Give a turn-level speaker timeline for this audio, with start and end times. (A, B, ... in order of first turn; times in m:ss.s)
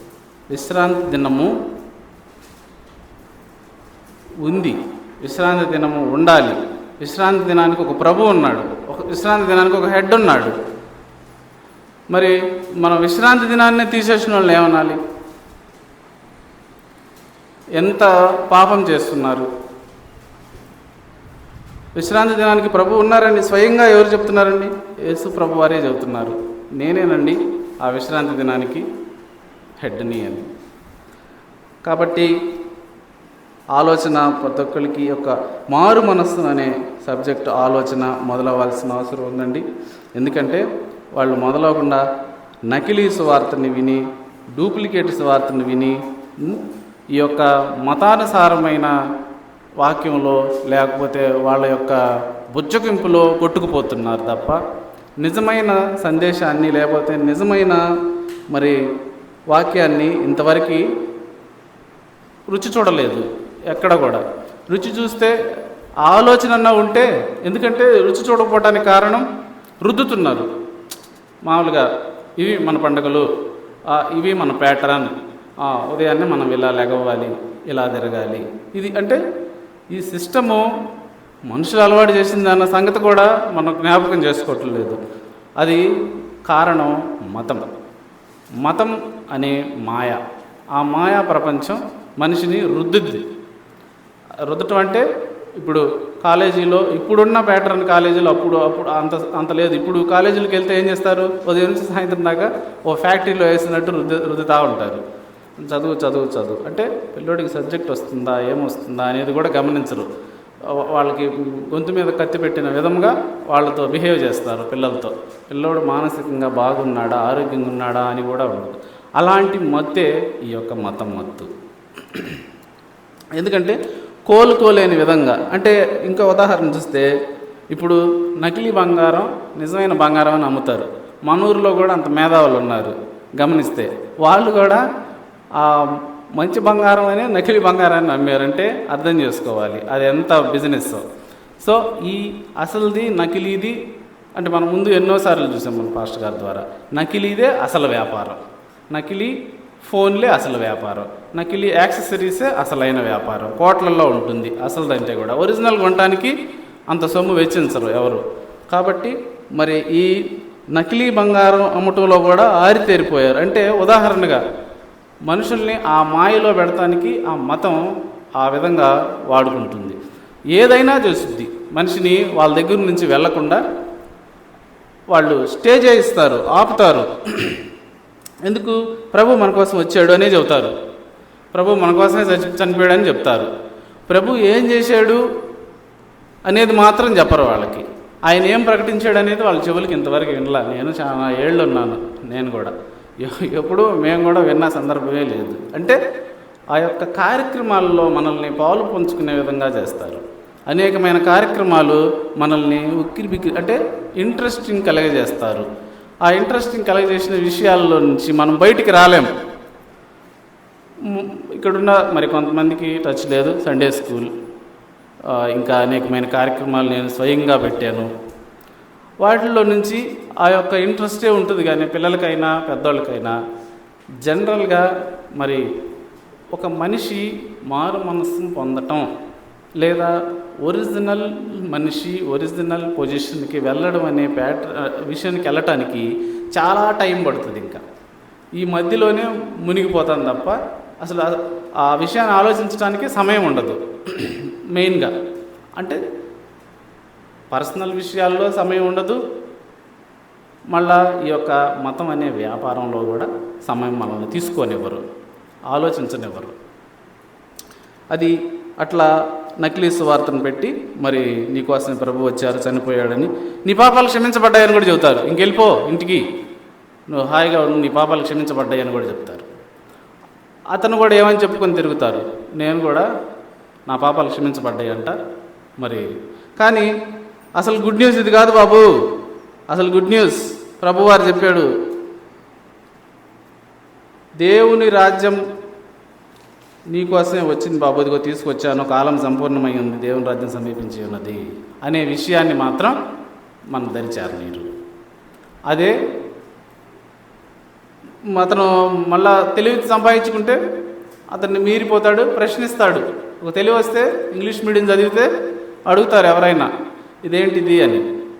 0:00.5-0:01.5 A
0:04.4-0:10.6 A
0:12.1-0:15.0 A
0:17.8-0:19.5 A
0:22.0-0:28.8 A
0:29.8-0:30.5 A
0:31.8-0:32.3 A
0:33.7-0:39.6 A
0:40.2-0:42.0 A
0:42.7-0:46.6 A
0:47.1-0:48.9 A
0:49.8-0:52.0 A
0:52.5-0:54.6 A
0:55.2-0:57.8 A
0:58.5-0:58.8 A
0:59.5-1:00.8 A
1:02.5-1:05.4 A
1:06.0-1:09.2 A
1:09.8-1:10.5 A
1:11.4-1:11.9 A
1:12.4-1:13.3 A
1:13.9-1:19.2 A
1:19.9-1:20.6 A
1:21.5-1:25.0 A
1:25.6-1:25.9 A
1:26.4-1:27.6 A
1:28.6-1:30.2 A
1:30.7-1:33.2 A
1:34.4-1:35.0 A
1:35.6-1:45.0 A
1:45.6-1:50.1 A
1:50.7-2:01.5 A
2:02.1-2:02.4 A
2:03.4-2:07.1 A
2:07.7-2:14.8 A
2:15.6-2:21.0 A
2:21.6-2:23.8 A
2:24.4-2:36.3 A
2:36.9-2:44.4 A
2:45.3-2:47.8 A
2:48.4-2:50.0 A
2:50.5-2:53.6 A
2:55.1-2:57.6 A
2:58.4-3:00.8 A
3:01.5-3:03.5 A
3:04.1-3:05.2 A
3:06.4-3:16.0 A
3:16.7-3:25.7 A
3:26.2-3:29.3 A
3:31.0-3:34.3 A
3:35.3-3:38.1 A
3:39.2-3:43.4 A
3:44.2-3:45.7 A
3:46.5-3:49.1 A
3:49.8-3:57.8 A
3:58.6-4:05.1 A
4:07.5-4:09.2 A
4:10.7-4:15.0 A
4:15.7-4:16.6 A
4:18.1-4:26.2 A
4:27.1-4:29.5 A
4:30.7-4:33.1 A
4:33.9-4:35.2 A
4:35.8-4:36.9 A
4:37.6-4:38.9 A
4:39.7-4:41.7 A
4:44.4-4:45.4 A
4:46.9-4:53.0 A
4:53.7-4:54.7 A
4:58.3-5:00.6 A
5:01.3-5:05.3 A
5:05.9-5:06.7 A
5:07.2-5:08.0 A